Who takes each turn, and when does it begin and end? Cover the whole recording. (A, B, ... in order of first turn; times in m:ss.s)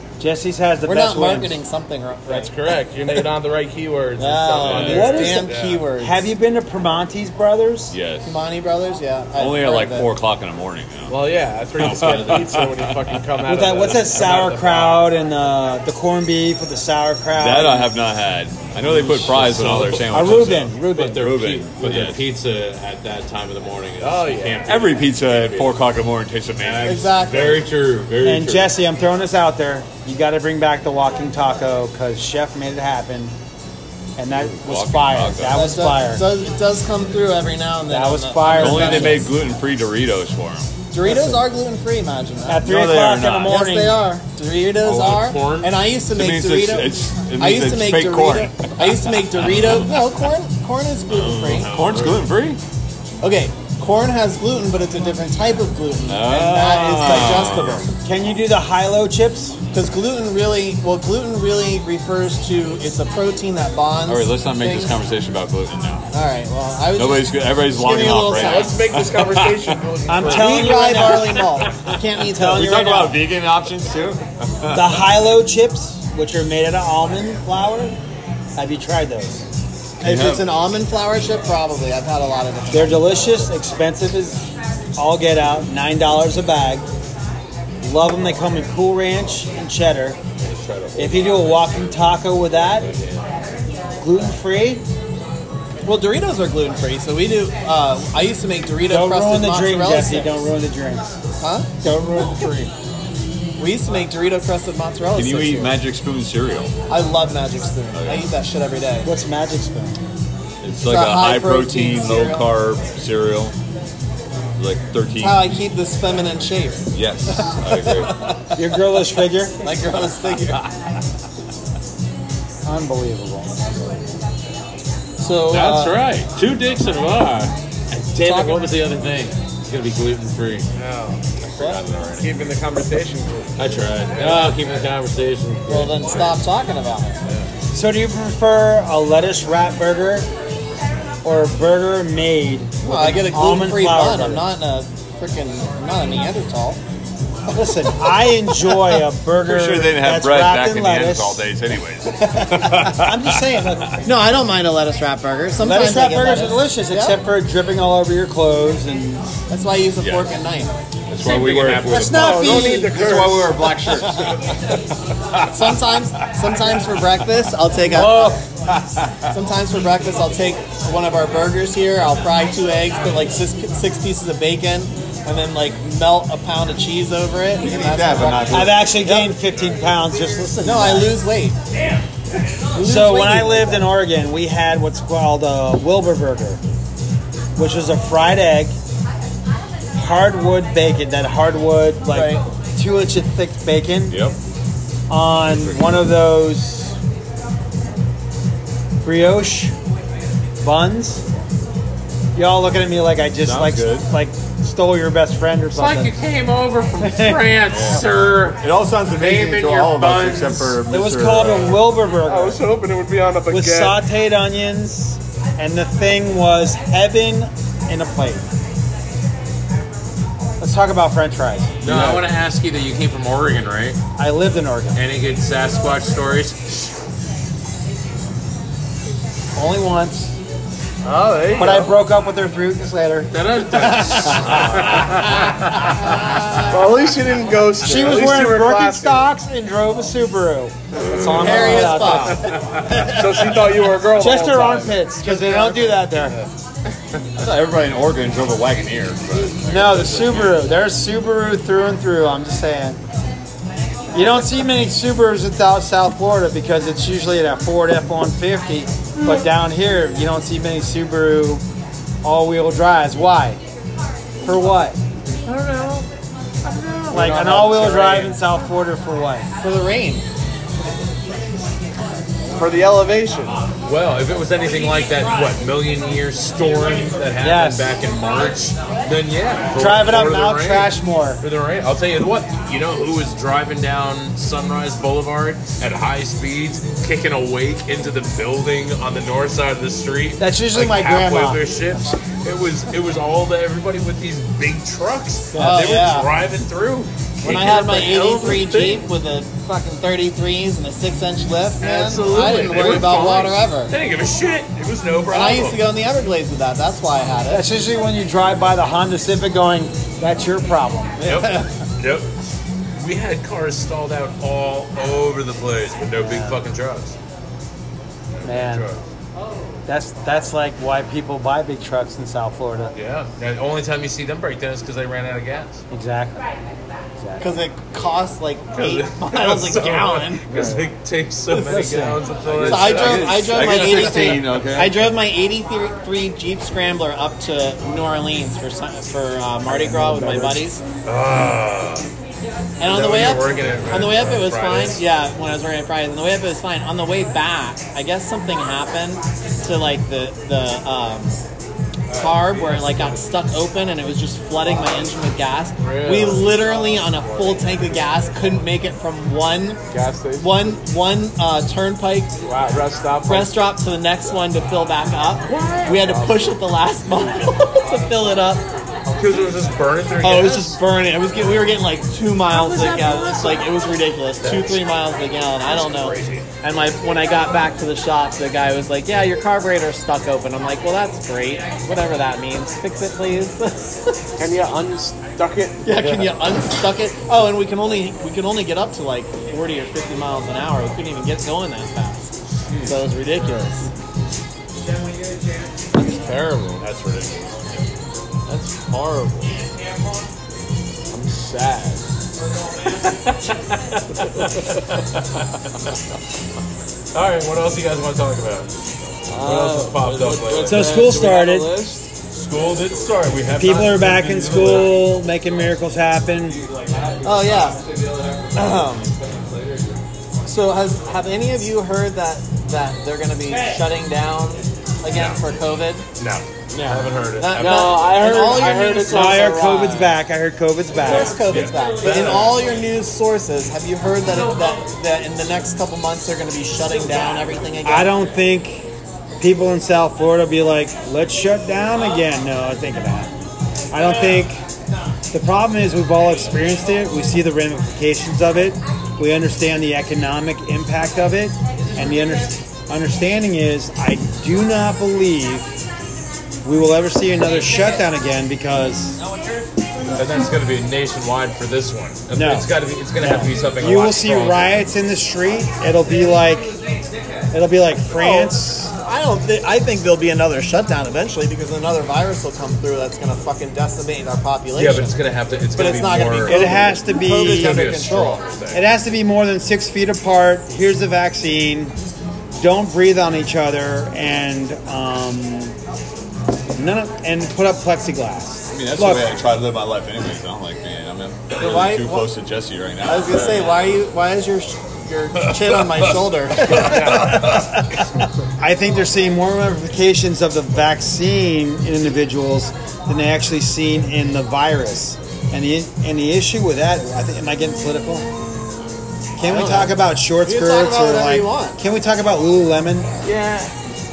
0:00.2-0:01.6 A
0:00.8-0:02.5 B
0:02.3-0:05.8 C
0:04.2-0:06.2 B
0:04.6-0:05.3 D
0:04.8-0:07.9 A
0:07.9-0:08.3 E
0:08.2-0:10.1 B
0:09.4-0:11.2 E
0:11.1-0:15.1 C
0:11.8-0:12.6 D
0:12.0-0:12.7 E
0:13.5-0:17.9 A
0:17.4-0:22.2 E
0:19.0-0:21.2 A
0:19.1-0:25.7 D
0:24.0-0:24.8 C
0:24.7-0:27.0 E
0:26.6-0:28.8 D
0:26.8-0:27.7 B
0:28.2-0:33.3 A
0:34.2-0:36.2 A
0:34.4-0:35.7 E
0:35.5-0:39.3 B
0:37.9-0:39.3 A
0:38.5-0:40.7 E
0:40.9-0:42.6 B
0:41.0-0:41.4 A
0:42.5-0:44.0 A
0:42.6-0:43.6 E
0:43.4-0:51.7 B
0:44.8-0:45.7 D
0:46.1-0:49.8 E
0:49.4-0:49.9 D
0:51.1-0:52.3 D
0:51.7-0:52.6 E
0:53.2-0:57.9 B
0:56.1-0:57.9 E
0:58.0-0:59.6 A
0:59.7-1:05.0 B
1:04.1-1:06.0 E
1:06.1-1:08.8 B
1:07.0-1:09.8 E
1:08.4-1:11.2 C
1:10.1-1:11.5 A
1:10.2-1:13.1 B
1:12.3-1:13.2 A
1:12.5-1:15.0 E
1:14.7-1:18.0 A
1:18.6-1:19.4 A
1:20.0-1:23.5 B
1:20.0-1:20.5 E
1:22.7-1:26.9 A
1:27.8-1:30.2 A
1:30.4-1:33.3 D
1:31.0-1:32.9 A
1:34.0-1:34.8 A
1:35.8-1:40.5 B
1:38.9-1:41.1 A
1:41.4-1:41.8 B
1:41.8-1:42.7 A
1:43.6-1:45.8 B
1:45.1-1:46.7 E
1:46.9-1:49.1 B
1:47.9-1:48.3 E
1:49.0-1:50.0 A
1:50.6-1:53.6 E
1:50.8-1:52.5 B
1:54.6-1:55.5 E
1:55.2-1:58.2 B
1:56.9-1:58.3 E
1:58.6-1:59.6 A
1:59.6-2:00.6 B
2:02.6-2:04.1 A
2:05.2-2:06.0 B
2:05.5-2:10.7 D
2:08.2-2:08.7 B
2:10.8-2:11.2 C
2:11.5-2:12.5 E
2:12.2-2:14.8 C
2:13.6-2:16.3 D
2:15.7-2:17.2 B
2:17.7-2:20.3 A
2:21.2-2:24.5 A
2:22.8-2:26.8 B
2:27.5-2:31.4 A
2:29.5-2:33.4 E
2:32.8-2:34.0 A
2:34.0-2:37.2 B
2:35.6-2:39.3 A
2:39.5-2:40.7 B
2:40.0-2:40.3 E
2:41.1-2:44.4 E
2:41.2-2:42.6 D
2:41.9-2:43.0 A
2:42.1-2:43.8 C
2:45.5-2:48.4 B
2:47.9-2:49.3 E
2:49.3-2:59.4 B
2:57.6-2:58.9 E
2:58.5-3:01.2 A
3:00.6-3:01.6 B
3:02.7-3:03.9 B
3:02.8-3:06.6 A
3:07.6-3:08.8 A
3:10.0-3:14.2 A
3:12.1-3:12.4 B
3:14.1-3:14.4 E
3:15.1-3:17.0 A
3:15.5-3:16.0 E
3:19.0-3:19.7 A
3:20.6-3:21.2 A
3:22.4-3:26.2 A
3:23.4-3:24.1 E
3:25.7-3:30.8 D
3:27.0-3:27.5 A
3:27.7-3:31.8 E
3:30.9-3:32.6 A
3:31.6-3:34.0 C
3:33.5-3:38.5 A
3:40.6-3:41.7 A
3:41.8-3:44.0 D
3:41.8-3:42.3 E
3:44.2-3:45.0 A
3:45.0-3:46.6 D
3:49.6-3:50.3 A
3:51.0-3:52.0 C
3:51.6-3:53.3 A
3:53.3-3:55.8 D
3:53.9-3:54.6 A
3:54.4-3:55.0 C
3:56.7-3:59.3 C
3:57.8-4:02.5 A
4:01.2-4:06.5 C
4:01.2-4:02.6 B
4:04.0-4:06.4 A
4:07.4-4:10.6 E
4:09.7-4:13.0 A
4:14.1-4:21.6 A
4:22.2-4:23.6 A
4:24.4-4:25.0 A
4:25.5-4:26.0 D
4:26.7-4:27.0 D
4:26.9-4:28.4 C
4:27.1-4:29.5 A
4:29.6-4:30.3 B
4:32.6-4:33.6 C
4:33.8-4:59.1 D
4:37.4-4:37.9 A
4:39.7-4:41.4 A
4:50.4-4:52.1 A
4:55.6-4:56.3 B
4:55.6-4:55.9 A
4:57.4-5:03.9 B
5:01.8-5:05.9 D
5:05.3-5:07.7 B
5:07.5-5:11.2 A
5:11.2-5:11.7 B
5:11.2-5:12.3 D
5:13.0-5:17.2 D
5:16.2-5:16.6 A
5:18.4-5:19.0 D
5:18.4-5:18.9 A
5:19.9-5:22.9 A
5:23.0-5:25.8 D
5:25.9-5:26.4 A
5:27.2-5:27.5 A
5:27.4-5:30.5 B
5:28.7-5:34.4 D
5:31.6-5:32.2 A
5:32.5-5:35.0 E
5:32.6-5:40.8 B
5:39.9-5:40.5 A
5:41.0-5:42.1 D
5:42.8-5:51.4 B
5:42.8-5:45.0 D
5:52.1-5:52.7 D
5:52.1-5:59.8 B
5:55.8-5:58.0 C
5:59.9-6:00.8 C
6:00.4-6:02.3 B
6:02.4-6:03.6 C
6:03.2-6:08.7 B
6:05.4-6:06.0 D
6:05.8-6:06.6 C
6:09.1-6:09.4 C
6:09.2-6:10.8 D
6:10.2-6:24.2 B
6:12.5-6:13.7 D
6:14.4-6:14.8 D
6:15.7-6:16.4 D
6:24.4-6:26.4 C
6:25.8-6:33.9 B
6:32.7-6:33.0 D
6:36.0-6:36.8 C
6:36.8-6:37.5 D
6:38.5-6:39.4 C
6:38.5-6:39.4 D
6:41.1-6:42.0 C
6:43.0-6:45.4 D
6:47.1-6:48.7 D
6:49.3-6:52.0 C
6:49.4-6:51.1 D
6:49.4-6:49.7 B
6:50.6-6:51.8 A
6:52.3-6:55.1 D
6:53.6-6:56.6 A
6:56.5-7:00.0 E
6:57.2-6:57.8 B
6:58.5-6:59.1 B
7:00.4-7:06.0 B
7:05.1-7:05.4 D
7:06.2-7:09.2 D
7:07.4-7:09.6 B
7:07.6-7:10.1 C
7:09.1-7:11.6 A
7:11.0-7:18.3 B
7:11.1-7:12.8 D
7:12.1-7:12.4 C
7:17.8-7:18.9 A
7:19.4-7:24.6 A
7:25.3-7:35.8 A
7:36.6-7:39.2 A
7:40.1-7:44.8 D
7:42.3-7:46.7 A
7:47.5-7:48.9 A
7:48.1-7:55.2 B
7:54.8-7:58.8 D
7:55.8-7:58.4 B
7:56.5-7:58.1 A
7:58.7-8:01.9 A
8:02.6-8:05.8 A
8:06.8-8:09.3 A
8:08.7-8:13.8 E
8:11.6-8:12.3 B
8:13.0-8:17.2 B
8:16.7-8:17.4 D
8:17.1-8:17.8 A
8:18.6-8:28.3 A
8:29.4-8:33.1 A
8:29.4-8:31.8 B
8:33.2-8:33.7 C